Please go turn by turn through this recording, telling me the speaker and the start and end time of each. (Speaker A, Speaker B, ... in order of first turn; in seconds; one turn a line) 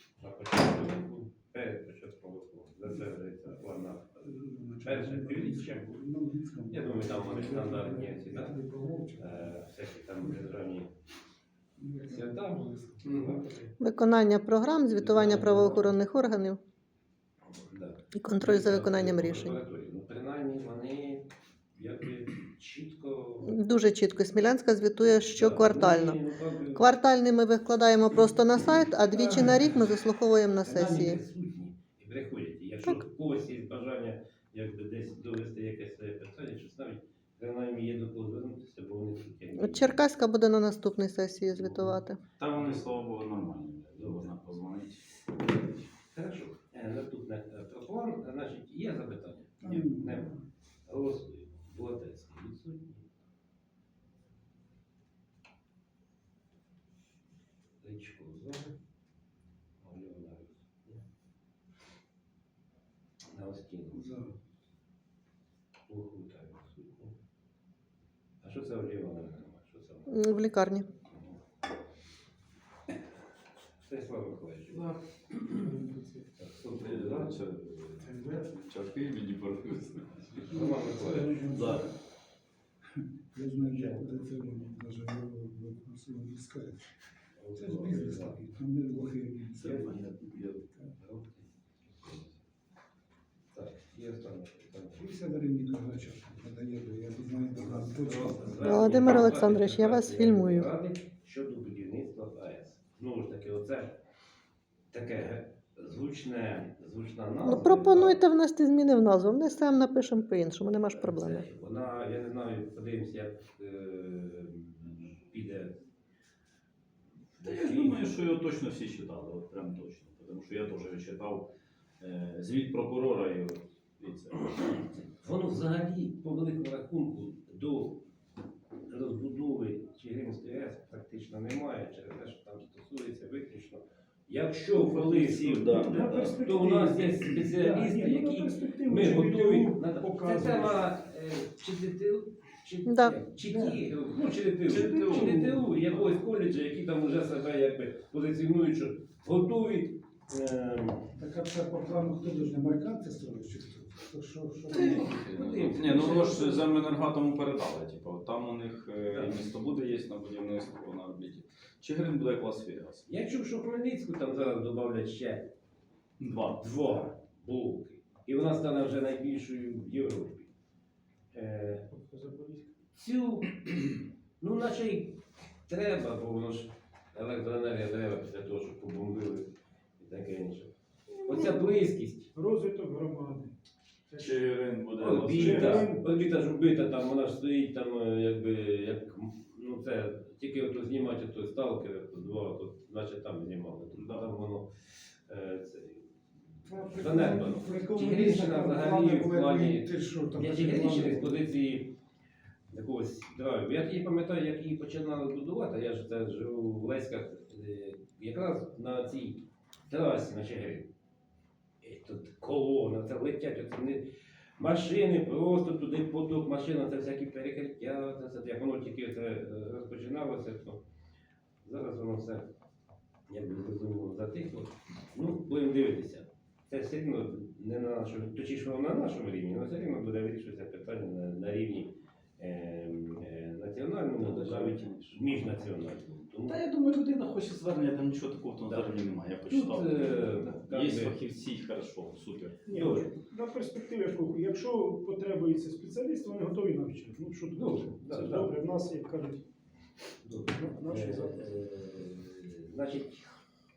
Speaker A: 0.2-5.9
Speaker B: 4.2-9.6
Speaker A: 6.7-8.5
Speaker A: 9.2-10.9
Speaker B: 11.8-13.3
Speaker A: 12.1-13.7
Speaker C: 13.8-16.6
Speaker A: 15.0-15.9
Speaker A: 17.7-23.7
Speaker C: 18.1-19.6
Speaker C: 23.4-26.2
Speaker A: 25.3-26.9
Speaker C: 26.8-31.2
Speaker A: 29.1-29.7
Speaker A: 30.6-40.0
Speaker C: 39.6-42.2
Speaker A: 41.5-43.0
Speaker D: 42.4-45.9
Speaker A: 44.0-44.3
Speaker A: 46.1-53.1
Speaker B: 49.6-50.4
Speaker A: 57.8-58.8
Speaker A: 59.8-61.0
Speaker A: 63.3-64.2
Speaker B: 63.9-64.3
Speaker A: 65.9-67.2
Speaker A: 68.4-70.2
Speaker C: 70.1-70.9
Speaker A: 71.1-71.4
Speaker A: 73.8-75.7
Speaker E: 75.7-76.2
Speaker A: 76.4-77.4
Speaker D: 76.7-80.4
Speaker B: 78.0-78.5
Speaker A: 80.4-81.5
Speaker B: 80.5-81.9
Speaker D: 81.5-81.9
Speaker B: 83.0-86.9
Speaker A: 83.5-84.6
Speaker A: 87.4-88.4
Speaker B: 87.5-90.0
Speaker A: 89.6-90.0
Speaker D: 89.6-90.6
Speaker A: 91.0-92.2
Speaker A: 93.5-95.0
Speaker B: 94.9-98.8
Speaker A: 97.5-104.0
Speaker C: 98.6-100.7
Speaker A: 104.9-108.2
Speaker C: 107.4-111.5
Speaker A: 110.9-115.8
Speaker A: 117.4-118.1
Speaker D: 117.4-124.5
Speaker A: 124.5-128.0
Speaker A: 128.9-151.1
Speaker D: 134.7-136.1
Speaker E: 135.7-140.8
Speaker C: 142.9-143.2
Speaker E: 143.5-143.8
Speaker D: 144.7-146.0
Speaker B: 151.2-155.2
Speaker A: 154.7-156.7
Speaker D: 154.7-163.1
Speaker A: 159.1-159.4
Speaker A: 163.1-165.5
Speaker D: 166.2-166.7
Speaker A: 166.6-170.5
Speaker A: 171.3-171.9
Speaker E: 171.9-172.7
Speaker A: 172.9-182.3
Speaker E: 182.3-183.5
Speaker E: 184.1-184.4
Speaker D: 184.2-185.9
Speaker A: 185.0-196.1
Speaker E: 185.2-186.0
Speaker D: 194.0-194.2
Speaker B: 196.6-201.4
Speaker A: 196.8-201.9
Speaker A: 202.7-210.9
Speaker A: 211.8-220.8
Speaker A: 221.6-222.5
Speaker A: 223.3-236.6
Speaker D: 234.2-235.4
Speaker D: 236.5-242.6
Speaker A: 239.5-241.2
Speaker E: 242.7-249.4
Speaker A: 242.7-243.2
Speaker A: 247.5-248.5
Speaker A: 250.2-253.3
Speaker E: 250.5-251.4